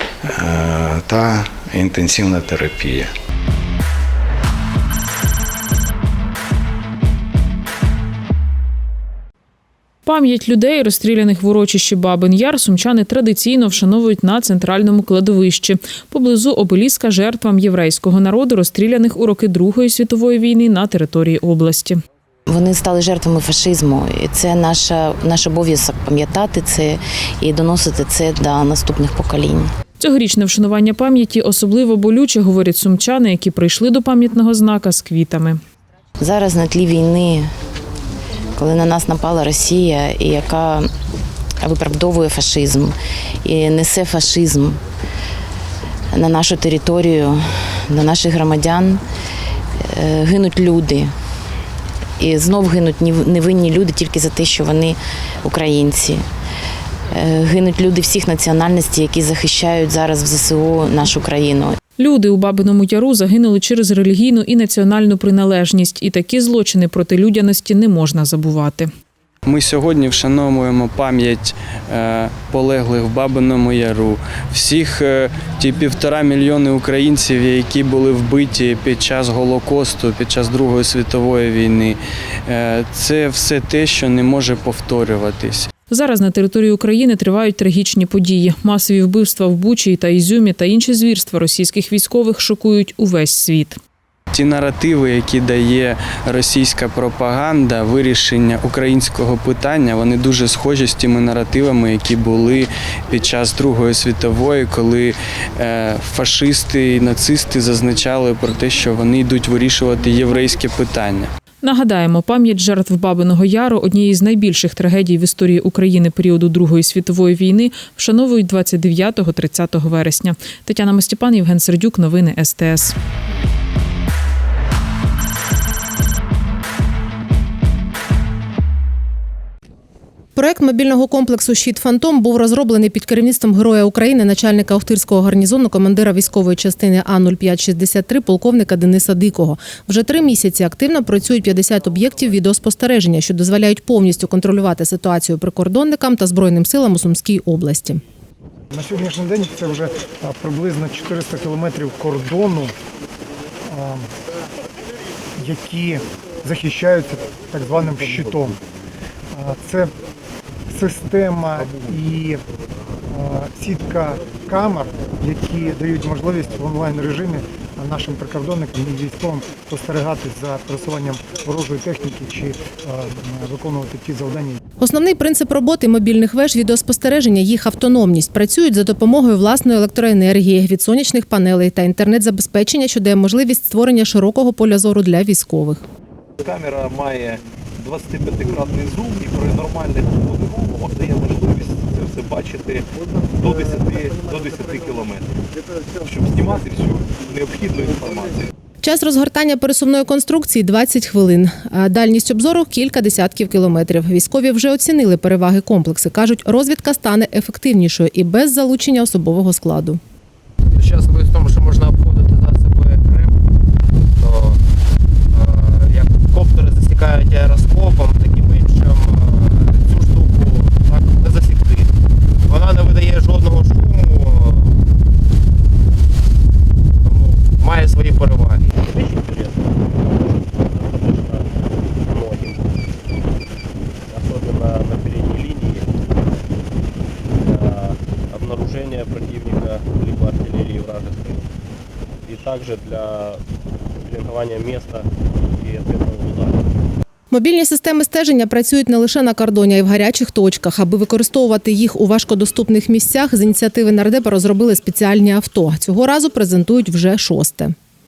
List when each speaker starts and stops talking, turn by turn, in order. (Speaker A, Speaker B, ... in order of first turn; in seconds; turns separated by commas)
Speaker A: 0.3-3.1, Speaker B: 10.1-22.0, Speaker C: 22.5-29.7, Speaker B: 30.0-35.6, Speaker C: 36.2-37.5, Speaker C: 38.6-40.9, Speaker C: 41.6-44.8, Speaker C: 46.1-49.0, Speaker C: 49.9-51.1, Speaker C: 52.2-56.2, Speaker C: 57.1-61.8, Speaker B: 62.0-68.9, Speaker D: 69.5-85.7, Speaker B: 85.9-93.8, Speaker D: 94.3-111.3, Speaker B: 111.6-122.9, Speaker E: 130.3-148.0, Speaker F: 148.7-152.7, Speaker F: 153.7-154.1, Speaker F: 155.4-158.5, Speaker F: 159.3-159.9, Speaker F: 160.7-162.4, Speaker F: 163.1-174.6, Speaker E: 174.8-185.8, Speaker G: 186.4-192.8, Speaker G: 193.4-195.3, Speaker G: 196.1-198.3, Speaker E: 198.8-210.0, Speaker H: 210.7-213.3, Speaker H: 214.2-214.6, Speaker H: 215.3-221.9, Speaker H: 222.5-224.7, Speaker H: 227.0-228.9, Speaker I: 228.9-231.5, Speaker I: 232.0-232.8, Speaker I: 234.1-235.9, Speaker I: 237.4-241.4, Speaker I: 242.2-243.4, Speaker I: 244.0-246.7, Speaker E: 247.3-257.7